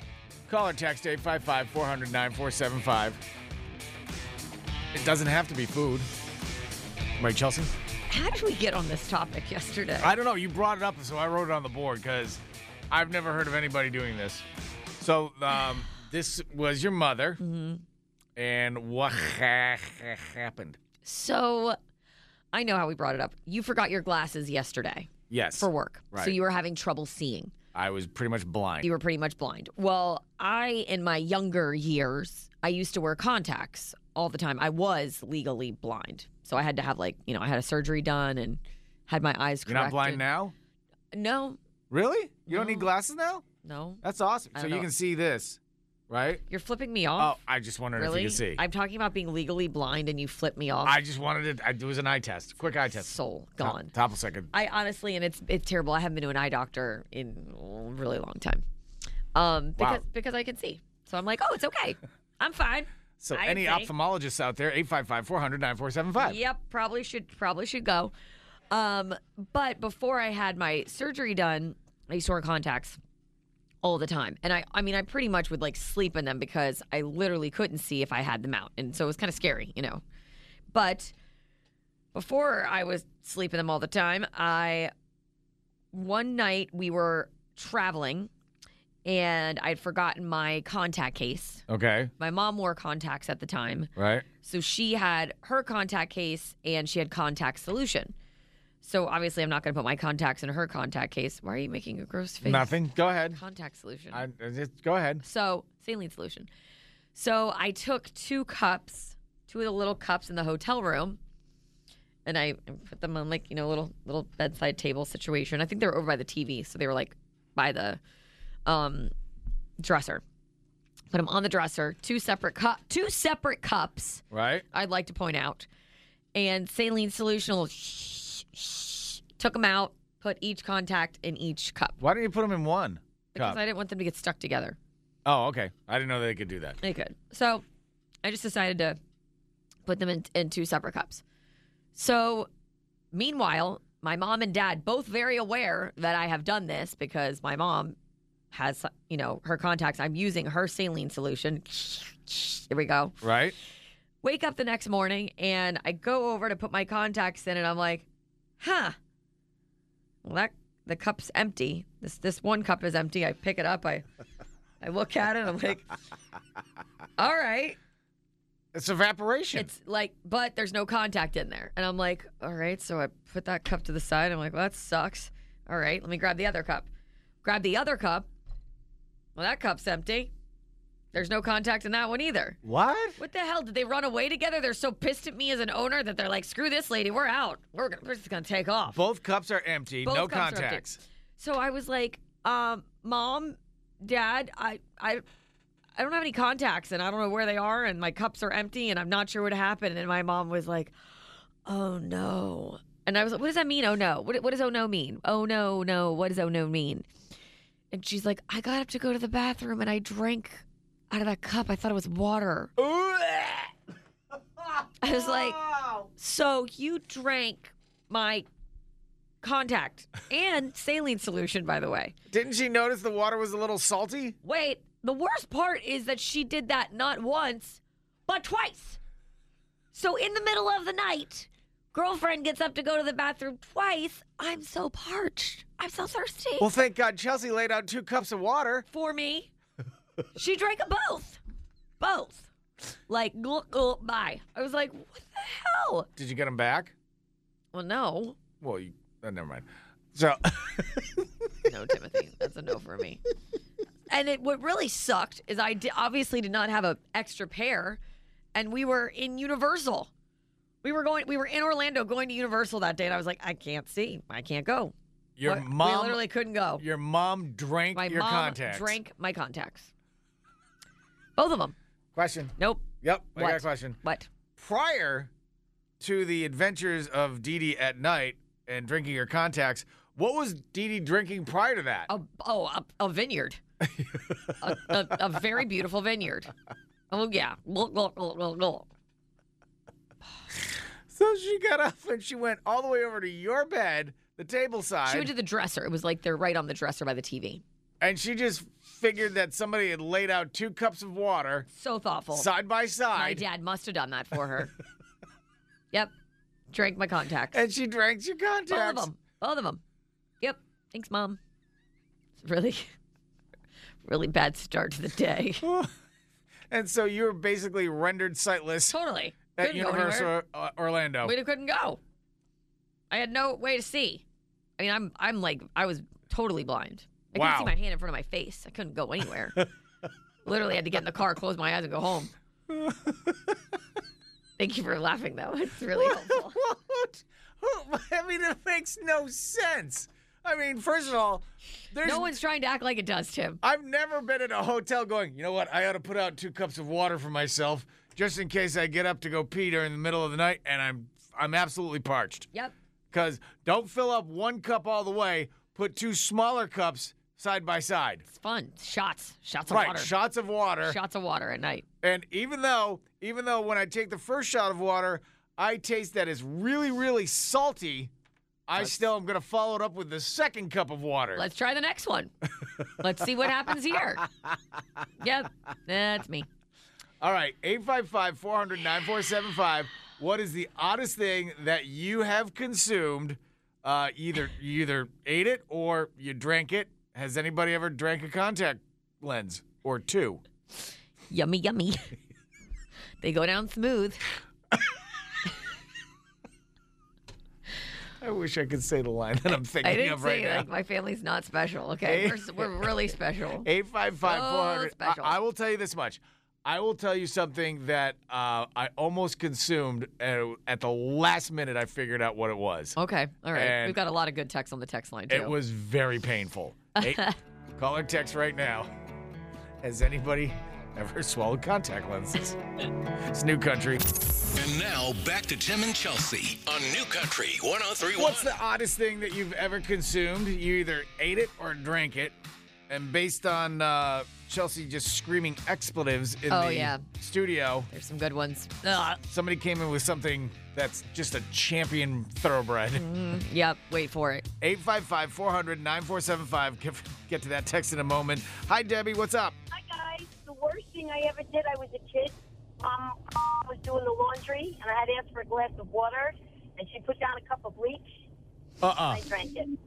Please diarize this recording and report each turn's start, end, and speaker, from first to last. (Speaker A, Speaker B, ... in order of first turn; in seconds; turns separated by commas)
Speaker A: 0.5-3.2, Speaker A: 4.9-6.1, Speaker A: 7.2-7.7, Speaker B: 8.1-10.1, Speaker A: 10.0-14.4, Speaker A: 15.0-17.4, Speaker B: 17.4-17.8, Speaker A: 18.4-20.8, Speaker B: 21.0-21.8, Speaker B: 22.5-27.5, Speaker A: 25.3-26.4, Speaker A: 27.7-28.9, Speaker B: 28.8-40.3, Speaker A: 39.7-40.5, Speaker B: 41.1-41.6, Speaker A: 41.9-43.4, Speaker B: 42.5-42.9, Speaker B: 43.6-44.0, Speaker A: 44.0-46.4, Speaker B: 44.5-44.9, Speaker B: 46.5-47.4, Speaker A: 47.2-48.6, Speaker B: 47.9-51.0, Speaker A: 50.8-54.5, Speaker B: 53.0-53.9, Speaker B: 54.5-58.6, Speaker B: 59.3-63.9, Speaker A: 59.8-60.0, Speaker A: 63.2-66.4, Speaker B: 66.2-68.1, Speaker B: 68.7-73.0, Speaker B: 73.8-80.0, Speaker B: 80.7-81.1, Speaker B: 82.1-84.9, Speaker B: 85.9-88.3, Speaker B: 89.0-91.6, Speaker A: 91.7-92.1, Speaker B: 92.2-93.9, Speaker A: 94.0-94.2, Speaker B: 94.4-98.1, Speaker B: 98.8-102.8, Speaker A: 102.4-103.4, Speaker B: 103.3-104.2, Speaker A: 104.1-105.2, Speaker B: 105.2-106.5, Speaker B: 107.1-111.2, Speaker B: 112.2-118.0, Speaker B: 118.7-119.1, Speaker B: 119.8-120.2, Speaker B: 121.1-125.7, Speaker A: 124.3-124.6, Speaker B: 126.3-132.0, Speaker A: 132.0-133.6, Speaker B: 133.3-134.8, Speaker A: 135.2-136.8, Speaker B: 136.8-137.6, Speaker B: 138.2-139.0, Speaker B: 139.8-141.2, Speaker B: 141.9-142.5, Speaker B: 143.1-148.0, Speaker B: 148.5-153.2, Speaker A: 153.2-153.5, Speaker B: 154.2-158.1, Speaker B: 158.6-158.9, Speaker B: 160.2-164.0, Speaker B: 164.8-165.9, Speaker B: 167.2-167.8, Speaker A: 168.7-169.7, Speaker B: 169.5-176.9, Speaker B: 177.4-178.3, Speaker B: 179.3-180.3, Speaker B: 181.1-182.6, Speaker A: 182.6-183.2, Speaker B: 183.2-189.0, Speaker A: 188.9-191.0, Speaker B: 190.0-190.8, Speaker B: 191.4-195.2, Speaker B: 196.0-200.9, Speaker B: 201.7-207.1, Speaker B: 207.9-212.7, Speaker A: 212.8-213.7, Speaker A: 214.6-216.1, Speaker B: 215.0-215.6, Speaker B: 216.2-218.5, Speaker B: 219.4-222.1, Speaker A: 222.3-224.4, Speaker B: 224.4-229.0, Speaker B: 229.9-236.7, Speaker A: 236.6-238.8, Speaker B: 238.9-239.5, Speaker B: 240.3-241.4, Speaker B: 242.0-242.5, Speaker B: 243.1-246.1, Speaker A: 246.2-246.9, Speaker B: 247.7-248.4, Speaker A: 248.6-251.3, Speaker B: 251.6-253.2, Speaker B: 254.1-258.0, Speaker B: 258.5-260.1, Speaker B: 260.8-266.8, Speaker A: 265.4-266.2, Speaker A: 266.8-269.0, Speaker B: 267.9-269.9, Speaker B: 271.4-271.7, Speaker A: 272.1-274.0, Speaker B: 272.6-274.3, Speaker A: 274.6-275.3, Speaker A: 276.0-282.1, Speaker B: 282.1-283.6, Speaker A: 283.8-284.9, Speaker B: 284.6-286.5, Speaker B: 287.1-288.9, Speaker A: 291.1-295.3, Speaker B: 295.1-297.6, Speaker A: 298.0-301.7, Speaker B: 301.7-302.5, Speaker A: 302.3-303.4, Speaker B: 303.1-304.7, Speaker B: 306.7-307.6, Speaker A: 307.5-309.1, Speaker B: 308.7-309.8, Speaker B: 310.4-311.4, Speaker B: 312.4-312.9, Speaker B: 314.0-315.6, Speaker A: 315.6-315.9, Speaker A: 316.7-318.9, Speaker B: 318.9-320.3, Speaker A: 319.6-321.3, Speaker B: 321.2-322.0, Speaker B: 323.1-324.2, Speaker B: 324.8-329.6, Speaker A: 327.3-327.7, Speaker B: 330.4-332.3, Speaker A: 332.7-333.3, Speaker B: 334.6-336.6, Speaker A: 336.0-342.4, Speaker B: 342.0-343.6, Speaker A: 343.6-352.5, Speaker A: 353.1-358.2, Speaker B: 358.3-360.1, Speaker A: 359.7-361.0, Speaker B: 360.8-361.8, Speaker A: 362.0-368.1, Speaker A: 368.7-371.4, Speaker B: 371.4-372.3, Speaker B: 372.9-374.2, Speaker B: 375.2-376.5, Speaker A: 377.2-390.4, Speaker B: 391.3-392.1, Speaker B: 393.2-394.2, Speaker A: 398.2-400.7, Speaker B: 399.8-403.7, Speaker A: 402.0-412.9, Speaker B: 404.2-405.4, Speaker B: 412.9-415.6, Speaker A: 413.5-414.0, Speaker A: 415.3-417.2, Speaker B: 416.9-417.4, Speaker A: 417.8-418.9, Speaker A: 419.8-422.6, Speaker A: 423.3-424.1, Speaker C: 424.5-428.5, Speaker A: 428.1-432.3, Speaker A: 432.9-437.9, Speaker B: 436.5-437.0, Speaker B: 437.9-439.2, Speaker A: 439.0-443.1, Speaker B: 442.9-444.5, Speaker A: 444.6-449.6, Speaker D: 449.7-458.1, Speaker A: 458.8-459.3, Speaker D: 458.9-459.8